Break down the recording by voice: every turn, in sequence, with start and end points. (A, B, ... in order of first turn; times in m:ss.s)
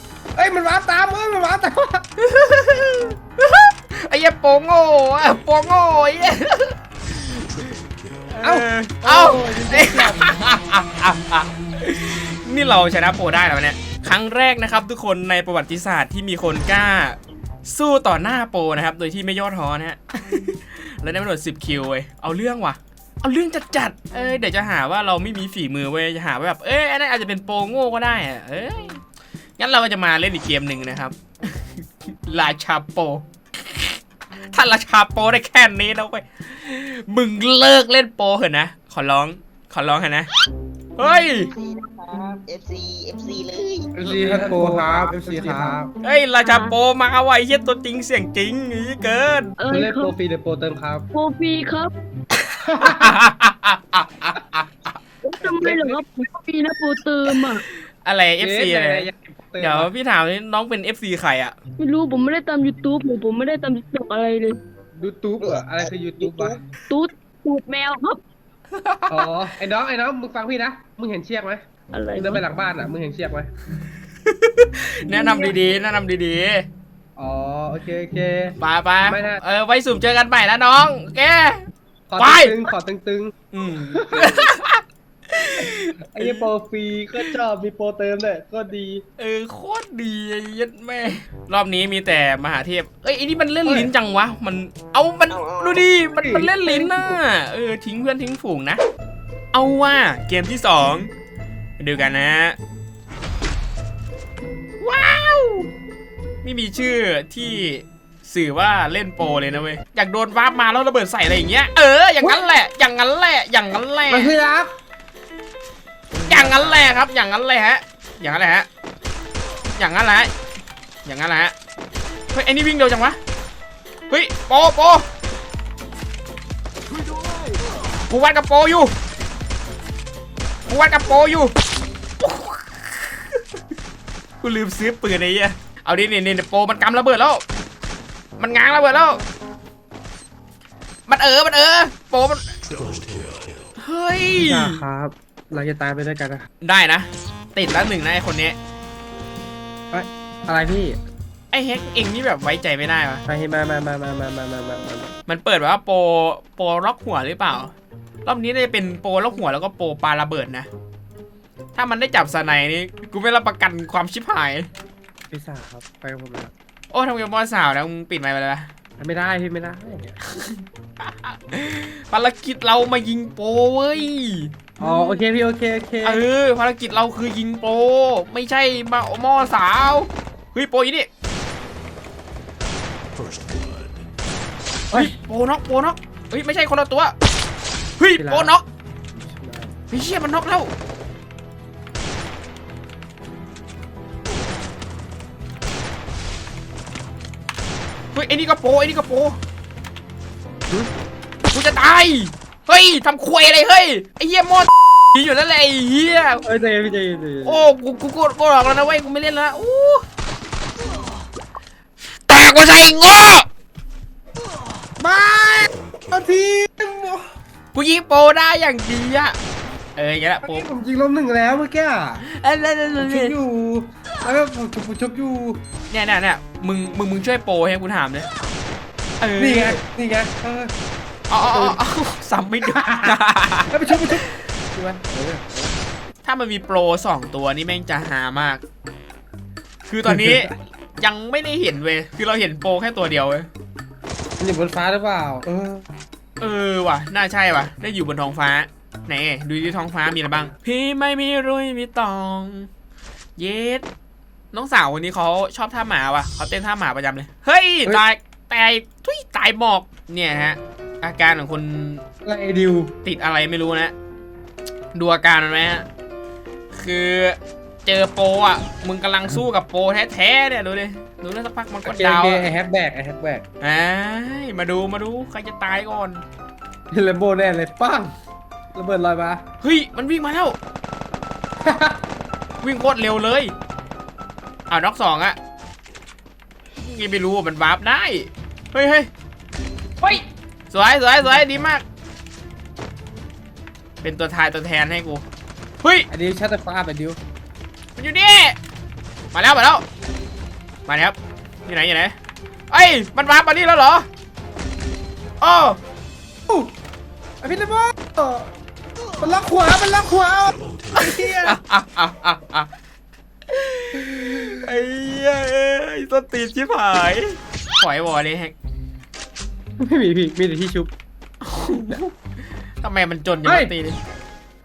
0:00.3-0:02.0 A
0:02.2-0:07.7 B
0:08.3-0:29.0 B
0:08.4-0:10.3 A
0:29.6-0:34.0 B
0:34.5-0:40.3 B
0:41.0-0:41.5 B
0:41.4-0:43.9 C
0:44.0-0:45.9 A
0:44.0-0:49.5 B
0:46.4-0:46.7 D
0:49.6-0:50.1 D
0:49.7-0:51.1 A
0:51.1-0:51.9 D
0:52.7-0:53.1 A
0:52.7-0:54.9 B
0:55.2-0:57.7 D
0:55.6-0:56.0 A
0:58.0-1:01.6 B
0:58.4-0:59.9 A
1:01.8-1:04.6 D
1:04.9-1:06.6 A
1:05.4-1:06.6 C
1:06.9-1:08.2 D
1:08.8-1:09.2 B
1:09.1-1:11.6 A
1:11.9-1:12.4 D
1:12.2-1:13.5 A
1:14.2-1:16.7 B
1:15.1-1:15.5 D
1:17.2-1:19.4 A
1:18.6-1:21.6 B
1:22.1-1:23.3 A
1:22.2-1:22.6 B
1:23.5-1:26.5 B
1:23.9-1:24.5 A
1:26.1-1:29.0 A
1:29.2-1:38.8 B
1:33.6-1:33.9 A
1:35.3-1:35.9 C
1:36.2-1:37.2 A
1:39.5-1:41.1 B
1:41.8-1:42.6 B
1:44.8-1:45.7 B
1:46.4-1:54.3 B
1:54.1-1:54.7 A
1:56.1-1:57.0 A
1:56.3-1:58.7 B
1:59.8-2:00.3 B
2:01.0-2:01.5 B
2:02.3-2:03.2 B
2:04.1-2:05.0 B
2:08.1-2:08.9 B
2:10.7-2:11.5 B
2:12.2-2:13.4 B
2:14.4-2:17.4 B
2:18.4-2:19.2 B
2:21.1-2:22.5 B
2:23.8-2:24.8 B
2:24.4-2:26.4 A
2:26.6-2:28.6 B
2:29.9-2:31.0 A
2:31.5-2:33.2 B
2:33.2-2:35.1 A
2:35.3-2:37.7 B
2:38.2-2:40.7 B
2:41.7-2:44.7 B
2:45.3-2:46.5 A
2:46.9-2:48.7 B
2:49.0-2:50.1 A
2:50.4-2:55.2 B
2:54.8-2:56.2 A
2:56.0-3:01.1 B
3:04.9-3:07.1 B
3:08.0-3:08.6 B
3:08.2-3:08.5 A
3:09.1-3:09.7 A
3:09.9-3:10.7 B
3:18.1-3:19.4 B
3:21.5-3:26.4 B
3:26.4-3:27.7 A
3:27.4-3:30.0 B
3:32.3-3:33.5 B
3:35.0-3:37.2 A
3:37.7-3:39.4 B
3:40.0-3:40.7 B
3:40.4-3:42.2 A
3:42.2-3:43.4 B
3:43.0-3:45.6 A
3:45.9-3:48.3 B
3:49.2-3:49.8 B
3:49.4-3:50.7 A
3:51.3-3:54.1 B
3:51.4-3:51.8 A
3:52.7-3:53.2 A
3:53.7-3:55.7 A
3:56.2-3:58.6 B
3:59.9-4:03.5 B
4:00.1-4:00.5 A
4:04.4-4:05.8 A
4:06.4-4:12.7 B
4:13.4-4:13.8 B
4:14.5-4:22.0 B
4:22.2-4:22.9 A
4:23.0-4:23.9 B
4:24.9-4:25.8 B
4:26.7-4:32.5 B
4:31.8-4:33.4 A
4:33.6-4:36.2 B
4:36.9-4:38.1 A
4:38.7-4:39.4 A
4:39.6-4:40.6 B
4:41.6-4:42.0 A
4:42.6-4:43.5 B
4:44.7-4:45.4 B
4:46.8-4:49.1 B
4:50.0-4:51.8 B
4:54.0-4:55.2 B
4:55.8-4:56.1 B
4:56.1-4:57.2 A
4:58.0-4:58.6 B
4:59.3-4:59.8 B
5:00.9-5:01.2 B
5:01.7-5:02.1 B
5:02.7-5:04.1 B
5:05.4-5:05.8 B
5:07.4-5:08.5 A
5:09.2-5:11.6 A
5:11.0-5:12.7 B
5:13.5-5:18.6 B
5:19.8-5:20.9 A
5:21.4-5:22.1 B
5:22.8-5:24.0 B
5:23.4-5:23.7 A